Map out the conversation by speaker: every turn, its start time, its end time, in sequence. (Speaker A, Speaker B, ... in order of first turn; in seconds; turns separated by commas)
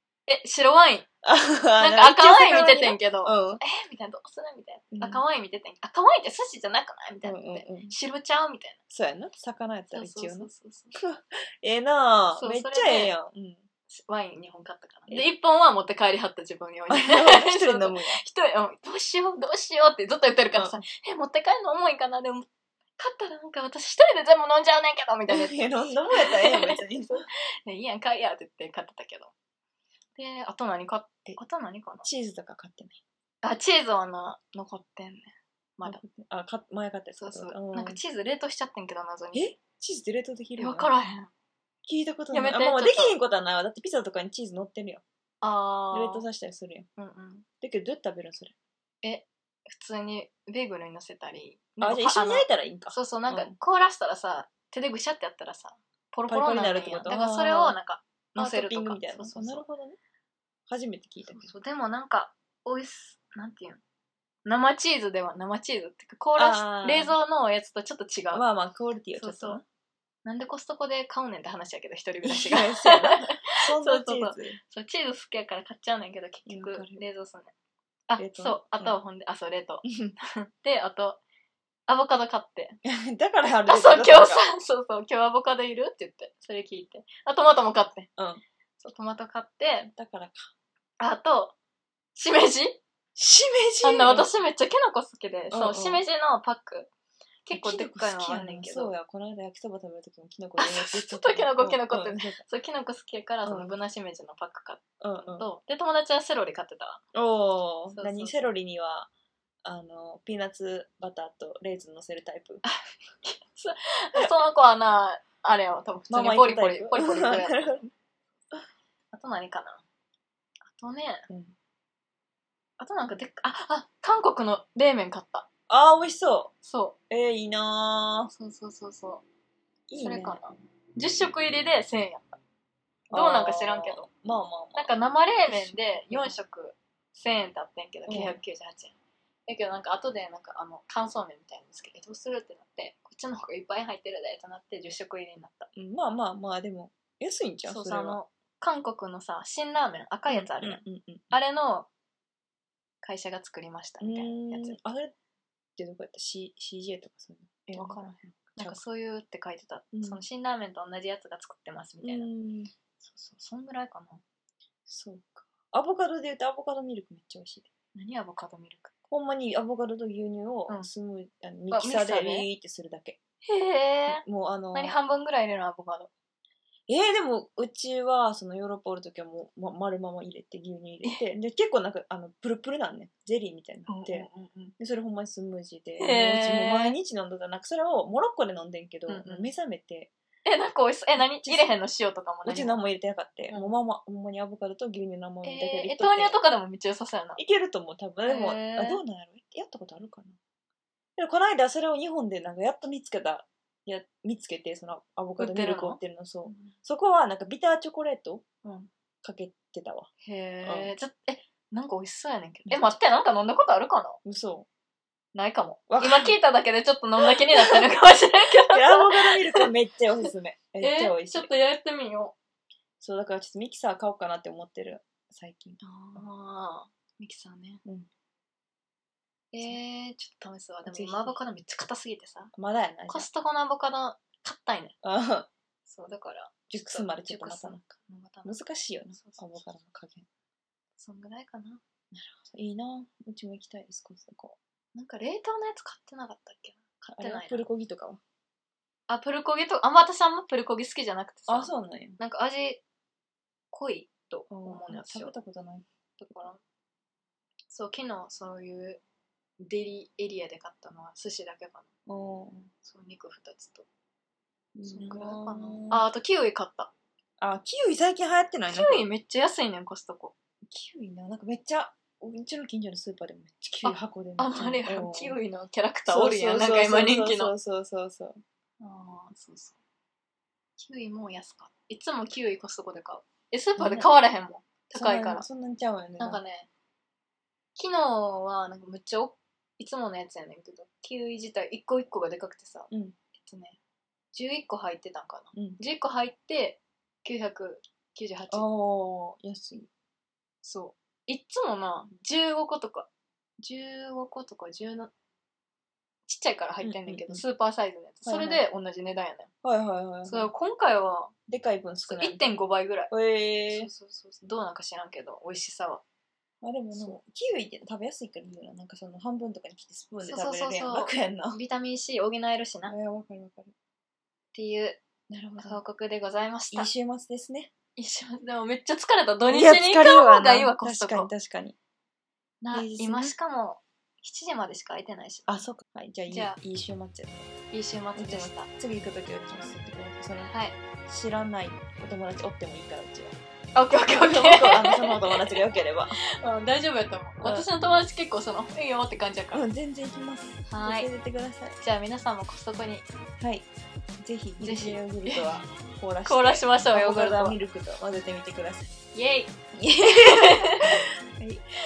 Speaker A: 0.3-1.1, Speaker B: 1.2-3.6, Speaker A: 1.8-8.8, Speaker B: 4.9-5.2, Speaker B: 7.2-8.0, Speaker B: 8.9-13.7, Speaker A: 9.9-11.0, Speaker A: 12.3-13.1, Speaker A: 13.9-29.3, Speaker B: 16.9-18.2, Speaker B: 20.6-20.8, Speaker B: 25.3-27.3, Speaker A: 30.2-32.1, Speaker B: 32.0-33.0, Speaker A: 33.4-36.0, Speaker B: 35.8-38.0, Speaker A: 37.2-39.5, Speaker B: 39.3-40.9, Speaker A: 40.6-41.3, Speaker B: 41.9-45.0, Speaker A: 42.3-43.2, Speaker A: 45.4-46.3, Speaker B: 45.9-46.9, Speaker A: 47.0-47.5, Speaker B: 47.6-48.5, Speaker A: 49.0-59.7, Speaker B: 51.8-53.6, Speaker B: 56.3-57.8, Speaker B: 58.4-60.0, Speaker B: 60.7-61.5, Speaker A: 61.3-63.8, Speaker A: 64.5-68.4, Speaker B: 66.4-67.2, Speaker B: 68.3-69.6, Speaker A: 69.2-69.6, Speaker A: 70.2-77.5, Speaker B: 72.2-74.6, Speaker B: 76.5-77.0, Speaker A: 78.1-81.2, Speaker B: 78.2-79.0, Speaker B: 79.8-80.2, Speaker A: 81.9-82.8, Speaker B: 82.8-84.5, Speaker A: 83.6-88.1, Speaker B: 88.2-88.4, Speaker A: 88.8-89.9, Speaker B: 89.9-90.5, Speaker A: 91.0-91.5, Speaker A: 92.2-92.8, Speaker B: 93.2-94.3, Speaker A: 93.8-96.9, Speaker B: 95.5-96.0, Speaker A: 97.5-98.9, Speaker B: 97.5-102.4, Speaker A: 100.6-107.0, Speaker B: 103.5-103.7, Speaker B: 105.0-105.5, Speaker B: 107.1-109.1, Speaker A: 107.9-108.5, Speaker B: 109.6-112.6, Speaker A: 112.7-117.8, Speaker B: 116.1-117.9, Speaker A: 119.1-119.8, Speaker A: 120.7-121.3, Speaker B: 121.3-121.5, Speaker A: 122.8-125.5, Speaker B: 125.7-126.5, Speaker A: 126.6-127.0, Speaker B: 127.1-128.3, Speaker A: 128.3-129.2, Speaker B: 129.9-130.4, Speaker A: 130.0-132.4, Speaker B: 133.1-134.9, Speaker A: 133.1-134.1, Speaker A: 134.8-139.0, Speaker B: 135.5-136.4, Speaker B: 138.1-138.4, Speaker A: 139.5-145.7, Speaker B: 145.8-148.2, Speaker A: 147.7-151.9, Speaker B: 150.3-151.3, Speaker A: 153.0-154.8, Speaker B: 154.0-155.1, Speaker B: 155.8-158.8, Speaker A: 157.7-162.3, Speaker B: 159.9-160.2, Speaker B: 162.0-162.7, Speaker A: 163.0-164.2, Speaker B: 164.9-167.7, Speaker A: 167.9-169.0, Speaker B: 169.1-173.2, Speaker A: 171.7-172.5, Speaker A: 173.4-174.2, Speaker B: 174.1-175.0, Speaker A: 174.7-176.1, Speaker B: 176.9-190.1, Speaker A: 183.9-184.8, Speaker A: 186.0-187.0, Speaker A: 189.1-189.5, Speaker A: 190.4-192.8, Speaker B: 191.4-191.7, Speaker B: 192.4-196.4, Speaker A: 195.4-197.4, Speaker B: 197.4-200.4, Speaker A: 198.2-199.0, Speaker B: 201.2-208.5, Speaker A: 205.4-206.8, Speaker A: 208.6-208.9, Speaker B: 209.2-210.1, Speaker A: 210.2-214.2, Speaker B: 210.7-210.9, Speaker B: 212.7-213.0, Speaker B: 214.2-214.7, Speaker A: 215.3-219.7, Speaker B: 215.9-216.3, Speaker B: 217.5-217.8, Speaker B: 218.6-221.5, Speaker A: 220.8-222.3, Speaker B: 223.0-226.2, Speaker A: 225.8-227.8, Speaker A: 229.5-232.5, Speaker B: 230.9-231.4, Speaker B: 232.5-233.3, Speaker A: 233.1-235.0, Speaker B: 235.0-235.5, Speaker A: 235.9-238.6, Speaker B: 236.7-237.9, Speaker B: 238.4-240.3, Speaker A: 239.1-239.7, Speaker A: 241.0-241.8, Speaker B: 242.1-244.6, Speaker A: 244.9-247.7, Speaker B: 247.1-248.2, Speaker A: 249.1-252.8, Speaker B: 251.5-252.2, Speaker A: 253.7-255.3, Speaker B: 254.5-255.8, Speaker A: 256.2-256.6, Speaker A: 257.7-259.0, Speaker A: 259.6-261.9, Speaker B: 262.1-262.7, Speaker A: 262.8-263.9, Speaker B: 264.8-266.1, Speaker A: 264.9-266.9, Speaker B: 267.4-269.1, Speaker A: 268.7-270.3, Speaker B: 270.7-275.4, Speaker A: 273.8-277.5, Speaker B: 276.1-278.4, Speaker A: 278.8-279.8, Speaker A: 280.8-285.5, Speaker B: 283.8-284.1, Speaker B: 284.9-286.4, Speaker A: 286.2-286.7, Speaker A: 287.8-293.8, Speaker B: 292.9-293.2, Speaker A: 294.3-298.7, Speaker B: 295.6-295.8, Speaker B: 298.5-299.9, Speaker A: 300.6-303.1, Speaker A: 303.6-305.1, Speaker A: 306.3-309.5, Speaker B: 306.8-307.4, Speaker B: 308.2-308.6, Speaker B: 309.6-310.5, Speaker A: 310.2-311.3, Speaker B: 311.5-312.6, Speaker A: 312.1-313.1, Speaker B: 313.1-313.9, Speaker A: 313.7-316.0, Speaker B: 316.6-321.6, Speaker A: 316.9-317.2, Speaker A: 320.2-322.9, Speaker B: 322.9-323.7, Speaker A: 324.5-325.0, Speaker B: 325.3-325.8, Speaker A: 325.6-326.9, Speaker B: 326.7-327.7, Speaker A: 328.0-331.3, Speaker B: 329.5-331.8, Speaker A: 332.6-335.6, Speaker B: 332.7-333.4, Speaker B: 335.5-337.5, Speaker A: 336.3-336.6, Speaker A: 337.7-338.7, Speaker B: 338.1-340.5, Speaker A: 340.5-340.8, Speaker B: 341.1-343.4, Speaker A: 343.8-345.6, Speaker B: 344.1-346.2, Speaker A: 346.4-349.6, Speaker B: 347.4-347.7, Speaker B: 349.5-351.8, Speaker A: 350.7-351.1, Speaker A: 351.8-353.1, Speaker B: 353.4-353.7, Speaker B: 354.2-358.9, Speaker A: 354.6-355.6, Speaker A: 356.2-357.6, Speaker A: 359.1-361.0, Speaker B: 359.8-361.6